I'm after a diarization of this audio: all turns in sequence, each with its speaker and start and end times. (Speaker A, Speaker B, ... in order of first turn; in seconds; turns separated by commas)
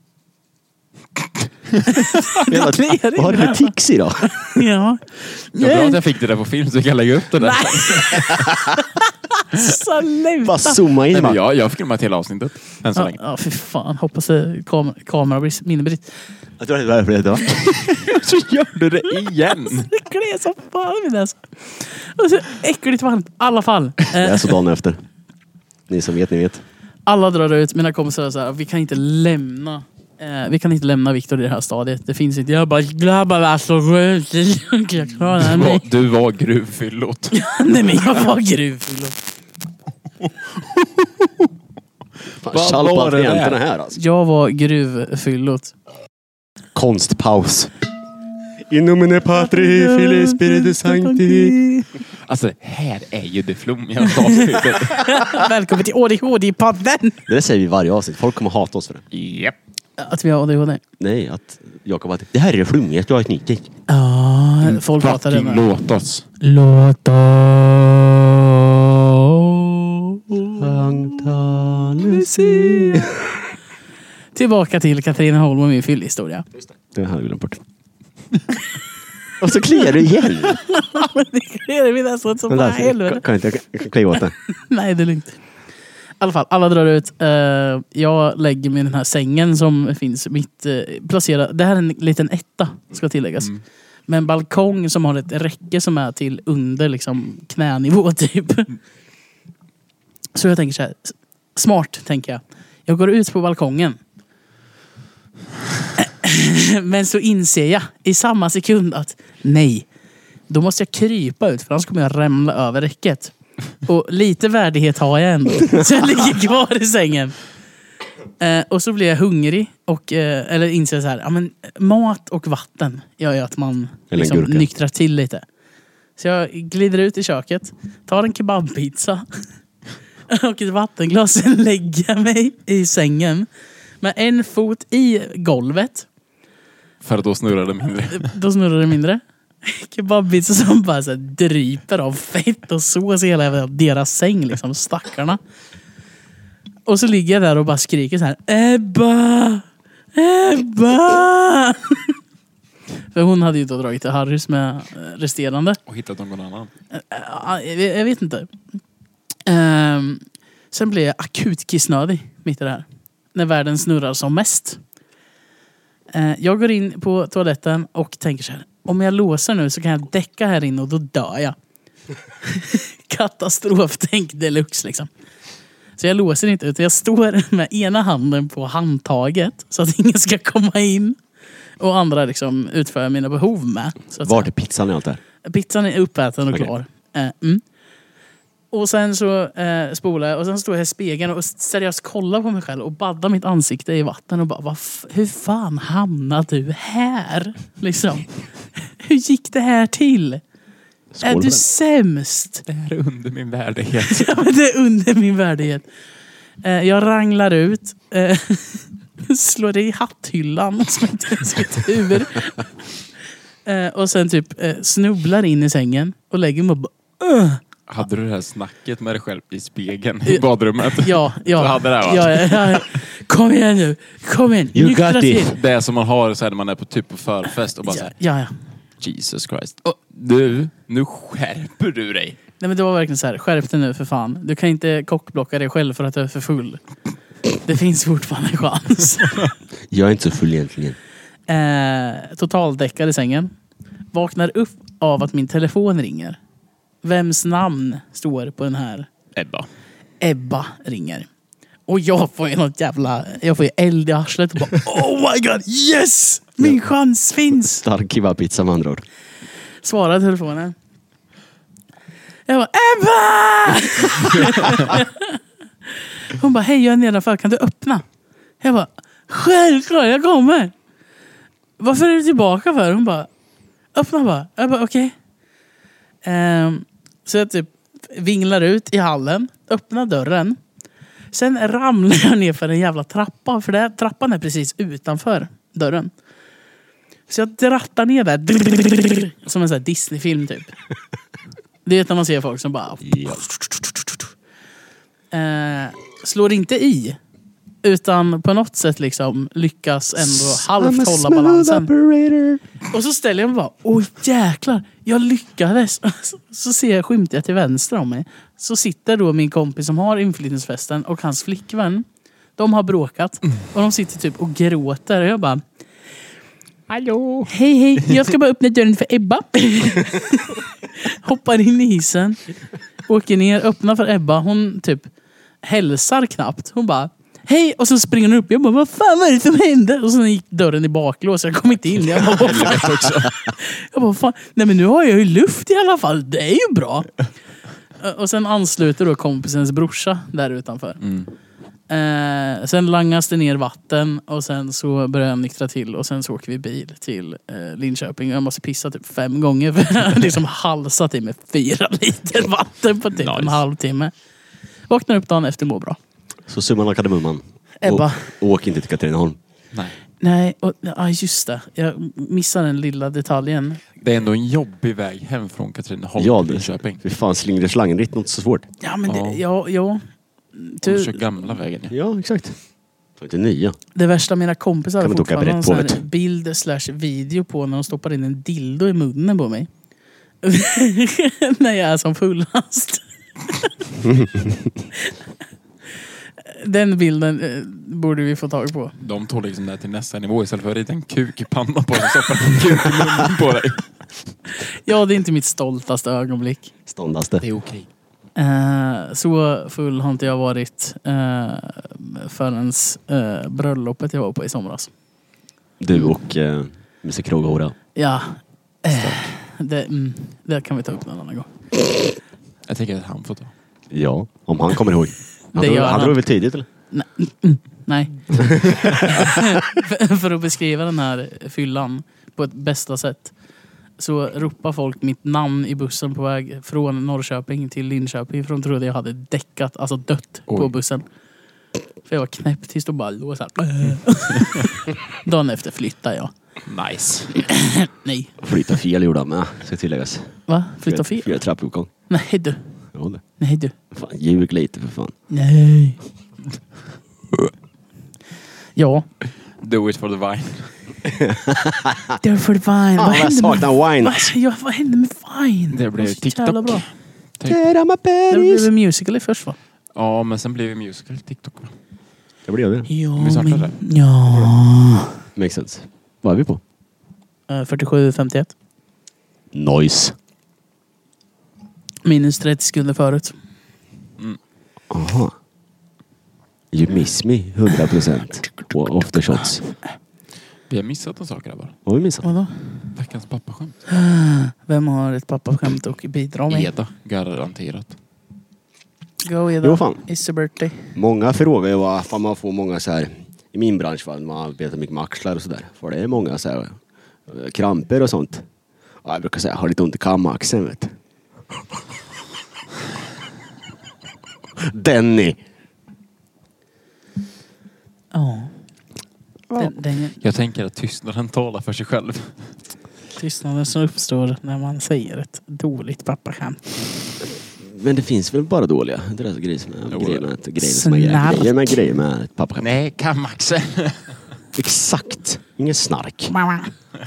Speaker A: 1.9-6.0, Speaker B: 2.5-4.6, Speaker C: 5.6-8.5, Speaker A: 7.4-10.8, Speaker B: 10.4-11.4, Speaker C: 11.1-13.2, Speaker A: 12.9-16.1, Speaker B: 16.6-17.7, Speaker C: 17.6-19.9, Speaker A: 19.6-24.5, Speaker B: 24.1-25.0, Speaker B: 25.9-26.6, Speaker A: 27.1-35.9, Speaker C: 35.4-37.4, Speaker A: 37.3-39.1, Speaker C: 40.2-41.5, Speaker B: 42.4-44.0, Speaker C: 42.5-43.6, Speaker A: 43.9-45.7, Speaker B: 46.7-47.7, Speaker B: 48.7-51.6, Speaker A: 49.3-51.9, Speaker C: 52.2-55.4, Speaker A: 54.0-57.2, Speaker B: 57.3-59.0, Speaker C: 59.1-59.5, Speaker A: 60.0-60.8, Speaker B: 61.0-63.7, Speaker A: 63.9-65.7, Speaker C: 64.6-66.2, Speaker A: 66.4-70.6, Speaker B: 70.6-73.4, Speaker A: 71.9-73.1, Speaker A: 74.3-76.5, Speaker B: 76.9-77.6, Speaker B: 79.4-80.6, Speaker A: 80.0-83.2, Speaker B: 82.5-84.3, Speaker A: 84.5-85.4, Speaker A: 86.2-93.5, Speaker A: 94.1-98.8, Speaker A: 100.3-104.0, Speaker A: 106.0-109.9, Speaker A: 110.5-117.3, Speaker A: 118.4-125.4, Speaker B: 124.1-124.7, Speaker A: 126.2-129.3, Speaker A: 130.3-133.5, Speaker A: 134.0-136.1, Speaker C: 137.0-138.3, Speaker A: 138.1-145.4, Speaker A: 146.8-152.2, Speaker A: 153.1-155.8, Speaker C: 155.9-156.7, Speaker A: 156.9-158.5, Speaker A: 159.4-164.8, Speaker A: 166.1-171.6, Speaker A: 172.4-175.1, Speaker A: 176.0-181.2, Speaker A: 181.8-184.5, Speaker B: 184.2-185.2, Speaker A: 185.4-187.6, Speaker A: 188.7-200.4, Speaker B: 201.1-201.6, Speaker A: 201.2-202.6, Speaker C: 202.7-204.4, Speaker A: 204.0-205.8, Speaker A: 206.6-212.7, Speaker A: 213.7-217.6, Speaker C: 217.9-223.0, Speaker A: 220.2-225.5, Speaker B: 224.7-225.6, Speaker C: 225.4-228.1, Speaker A: 227.9-228.5, Speaker C: 229.0-232.4, Speaker A: 232.6-236.8, Speaker A: 237.6-239.5, Speaker B: 239.9-241.0, Speaker A: 241.5-243.5, Speaker A: 244.1-246.4, Speaker A: 247.0-249.1, Speaker C: 249.3-249.7, Speaker A: 250.2-251.3, Speaker A: 251.9-257.8, Speaker B: 257.5-259.0, Speaker A: 259.8-260.7, Speaker A: 262.5-268.0, Speaker A: 268.6-270.7, Speaker A: 271.8-273.3, Speaker A: 273.9-275.1, Speaker A: 276.2-280.6, Speaker A: 281.3-286.1, Speaker A: 287.3-290.7, Speaker A: 291.9-294.2, Speaker B: 293.1-293.4, Speaker A: 295.3-297.2, Speaker A: 297.8-301.9, Speaker B: 300.3-302.6, Speaker A: 302.9-312.1, Speaker A: 312.6-315.6, Speaker C: 316.9-317.4, Speaker A: 317.4-322.4, Speaker A: 323.1-325.1, Speaker A: 325.6-337.1, Speaker C: 332.1-333.3, Speaker A: 338.0-341.0, Speaker C: 341.0-341.3, Speaker A: 341.9-354.1, Speaker C: 353.1-353.6, Speaker A: 354.9-356.0, Speaker B: 356.5-359.4, Speaker A: 357.8-358.3, Speaker A: 360.2-363.8, Speaker C: 364.0-367.0, Speaker B: 366.2-368.7, Speaker A: 368.8-370.0, Speaker C: 369.1-369.4, Speaker A: 370.5-371.2, Speaker C: 370.8-371.9, Speaker B: 371.9-372.6, Speaker B: 373.2-373.8, Speaker A: 373.9-379.7, Speaker B: 375.0-376.0, Speaker A: 380.4-384.0, Speaker B: 384.1-384.5, Speaker A: 386.4-388.9, Speaker C: 389.0-393.8, Speaker A: 394.8-396.7, Speaker B: 396.9-397.4, Speaker C: 397.4-397.9, Speaker A: 398.4-404.9, Speaker B: 405.8-407.7, Speaker A: 407.9-411.5, Speaker C: 408.9-409.2, Speaker C: 412.7-413.5, Speaker B: 413.9-416.6, Speaker A: 415.5-416.3, Speaker A: 416.9-423.3, Speaker B: 418.3-419.4, Speaker A: 424.0-431.0, Speaker A: 432.0-436.3, Speaker C: 436.7-437.3, Speaker A: 437.3-438.3, Speaker B: 438.4-441.9, Speaker A: 440.5-441.4, Speaker A: 442.1-442.6, Speaker B: 442.9-443.2, Speaker A: 443.4-443.7, Speaker B: 443.9-445.1, Speaker A: 445.3-446.0, Speaker A: 448.8-449.1, Speaker C: 449.6-450.7, Speaker B: 451.0-452.2, Speaker A: 452.2-456.8, Speaker B: 452.9-454.3, Speaker C: 455.7-456.9, Speaker B: 457.4-458.7, Speaker A: 458.3-459.6, Speaker C: 459.9-461.7, Speaker B: 462.5-462.9, Speaker A: 462.9-465.2, Speaker C: 463.1-463.8, Speaker B: 465.4-466.6, Speaker A: 467.5-468.5, Speaker B: 469.5-470.1, Speaker A: 472.0-473.3, Speaker B: 474.9-475.3, Speaker B: 476.7-479.6, Speaker C: 480.7-481.7, Speaker B: 481.9-482.2, Speaker A: 482.2-482.6, Speaker C: 482.9-483.8, Speaker A: 483.9-486.7, Speaker C: 486.5-487.9, Speaker A: 489.2-490.9, Speaker B: 489.6-490.0, Speaker B: 490.9-498.4, Speaker B: 499.0-500.9, Speaker B: 504.6-505.4, Speaker A: 508.1-508.5, Speaker A: 509.5-510.2, Speaker C: 510.2-512.5, Speaker A: 513.1-516.8, Speaker B: 517.6-522.7, Speaker C: 519.9-520.3, Speaker A: 520.6-521.8, Speaker C: 522.6-524.2, Speaker B: 524.5-526.3, Speaker A: 526.3-526.7